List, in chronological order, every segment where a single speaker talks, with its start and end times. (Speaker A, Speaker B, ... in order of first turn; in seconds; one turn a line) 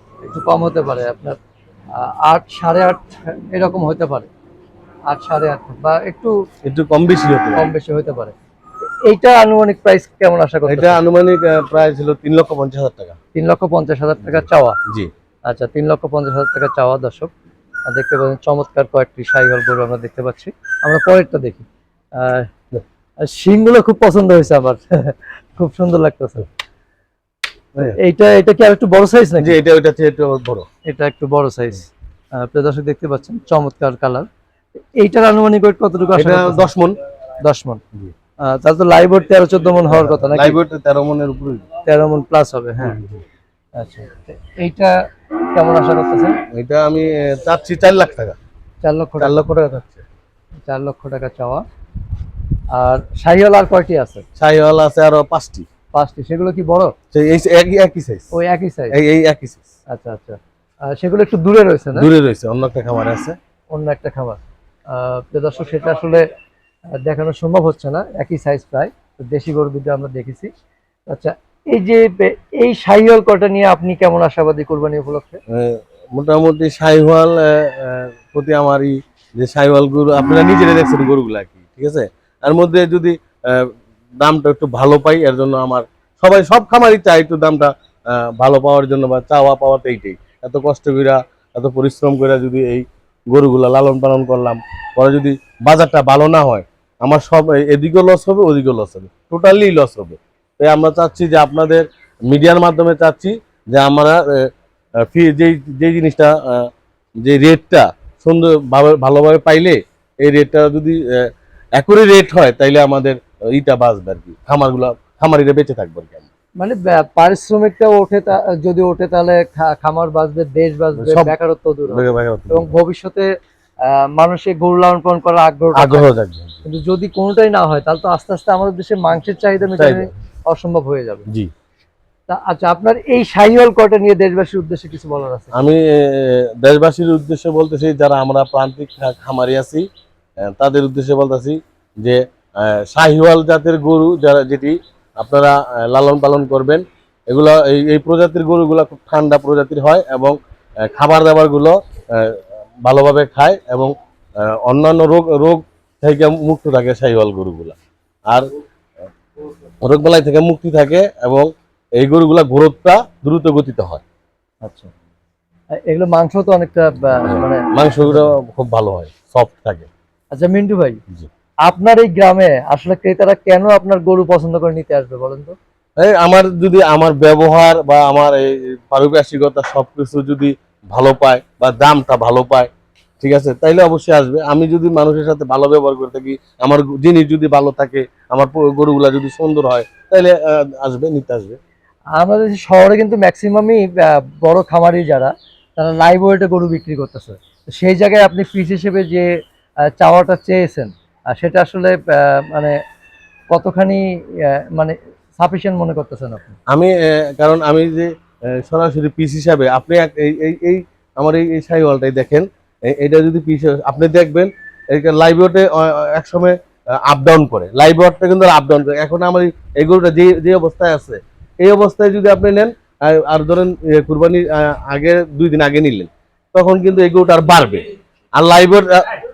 Speaker A: 0.2-1.4
Speaker A: 1.9-4.3
Speaker A: 5.1-6.3
Speaker B: 6.6-7.7
Speaker A: 7.5-11.0
Speaker B: 10.7-13.2
Speaker A: 13.3-14.8
Speaker A: 15.5-17.3
Speaker A: 17.9-22.5
Speaker A: 23.2-26.5
Speaker A: 27.8-29.5
Speaker B: 29.4-30.7
Speaker A: 30.9-34.3
Speaker A: 35.0-36.7
Speaker B: 36.1-37.0
Speaker A: 37.4-37.8
Speaker A: 38.4-40.6
Speaker B: 39.9-41.6
Speaker A: 41.9-43.0
Speaker B: 42.8-43.2
Speaker A: 43.8-44.9
Speaker A: 45.5-46.4
Speaker B: 46.5-48.4
Speaker A: 48.8-49.3
Speaker B: 49.2-50.0
Speaker A: 50.6-51.6
Speaker A: 52.7-54.2
Speaker B: 54.4-55.7
Speaker A: 55.9-56.9
Speaker B: 57.1-58.3
Speaker A: 58.3-59.0
Speaker B: 58.9-59.7
Speaker A: 59.9-62.1
Speaker B: 61.9-63.4
Speaker A: 63.7-66.3
Speaker A: 66.9-70.5
Speaker A: 71.1-75.4
Speaker B: 75.5-104.5
Speaker B: 105.0-106.7
Speaker B: 107.2-116.3
Speaker A: 116.6-123.3
Speaker B: 121.0-121.3
Speaker B: 121.9-122.7
Speaker A: 123.8-126.1
Speaker B: 125.7-126.6
Speaker A: 126.6-131.2
Speaker B: 129.8-130.1
Speaker A: 132.3-135.6
Speaker B: 135.5-139.8
Speaker B: 140.4-157.8
Speaker B: 159.8-164.0
Speaker A: 164.6-164.9
Speaker A: 165.8-168.3
Speaker B: 167.2-169.9
Speaker A: 170.3-171.0
Speaker A: 171.6-175.6
Speaker B: 176.0-182.7
Speaker B: 183.2-191.6
Speaker A: 192.2-199.3
Speaker A: 199.9-202.8
Speaker A: 203.5-206.6
Speaker B: 206.7-227.8
Speaker B: 228.3-229.2